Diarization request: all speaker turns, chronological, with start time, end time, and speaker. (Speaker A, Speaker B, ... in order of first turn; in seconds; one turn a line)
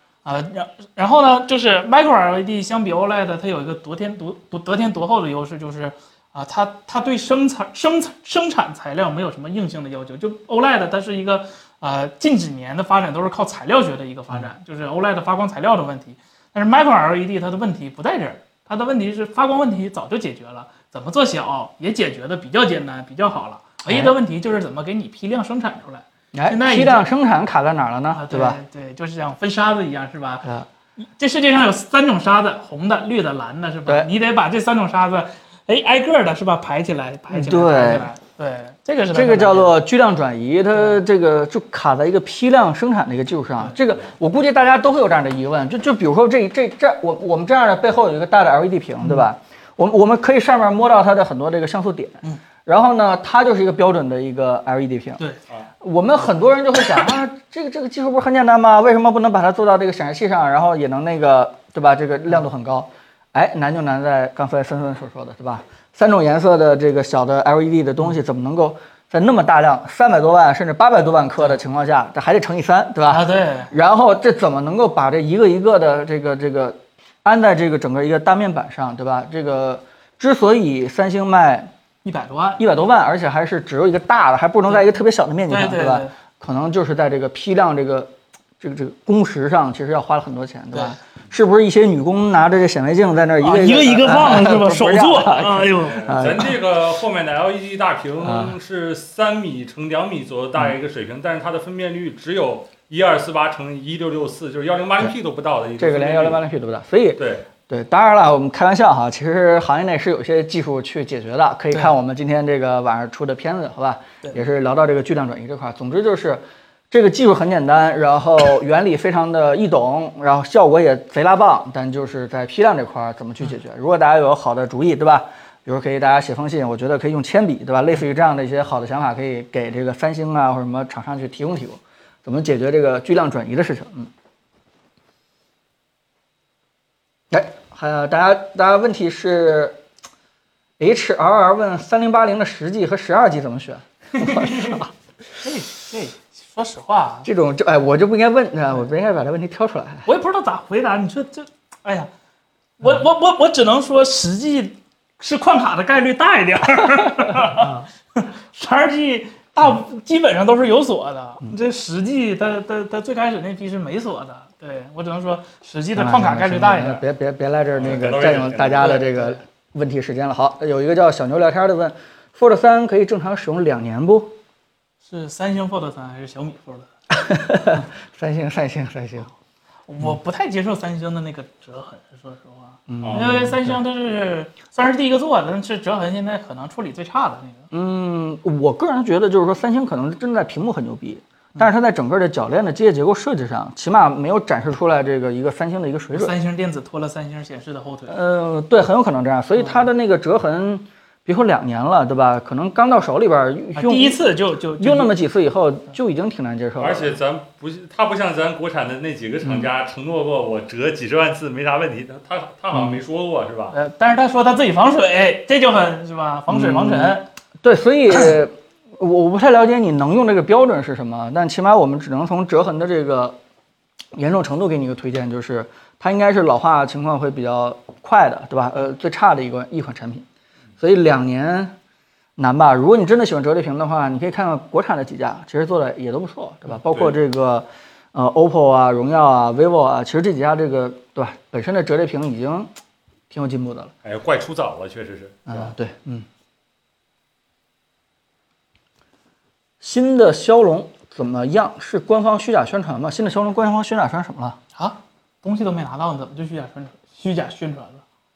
Speaker A: 0.2-27.1
Speaker B: 23.9-24.1
Speaker B: 26.3-28.6
Speaker A: 28.1-39.8
Speaker B: 37.3-38.1
Speaker B: 39.1-55.2
Speaker B: 55.8-81.7
Speaker A: 73.1-73.7
Speaker A: 82.0-82.6
Speaker B: 82.6-96.6
Speaker A: 85.5-86.1
Speaker A: 93.4-96.3
Speaker C: 95.9-106.4
Speaker B: 98.2-98.5
Speaker B: 105.8-134.1
Speaker C: 107.2-107.5
Speaker B: 137.3-139.8
Speaker B: 140.8-144.9
Speaker A: 144.2-144.8
Speaker A: 145.4-147.3
Speaker B: 147.2-150.1
Speaker A: 150.1-152.1
Speaker A: 152.8-167.0
Speaker B: 157.5-157.8
Speaker B: 165.9-174.3
Speaker C: 167.8-169.0
Speaker A: 168.8-169.4
Speaker A: 175.1-176.9
Speaker B: 177.1-179.3
Speaker A: 179.9-187.7
Speaker B: 182.9-183.8
Speaker C: 183.0-183.3
Speaker B: 187.7-196.3
Speaker A: 196.1-198.2
Speaker B: 198.1-204.2
Speaker A: 203.8-205.1
Speaker B: 204.8-207.2
Speaker C: 206.8-213.8
Speaker A: 213.7-217.3
Speaker B: 216.5-223.4
Speaker B: 224.1-230.3
Speaker B: 230.8-231.7
Speaker B: 232.4-242.7
Speaker B: 243.3-243.9
Speaker C: 244.0-245.6
Speaker B: 245.5-246.3
Speaker B: 249.8-254.6
Speaker A: 254.8-258.0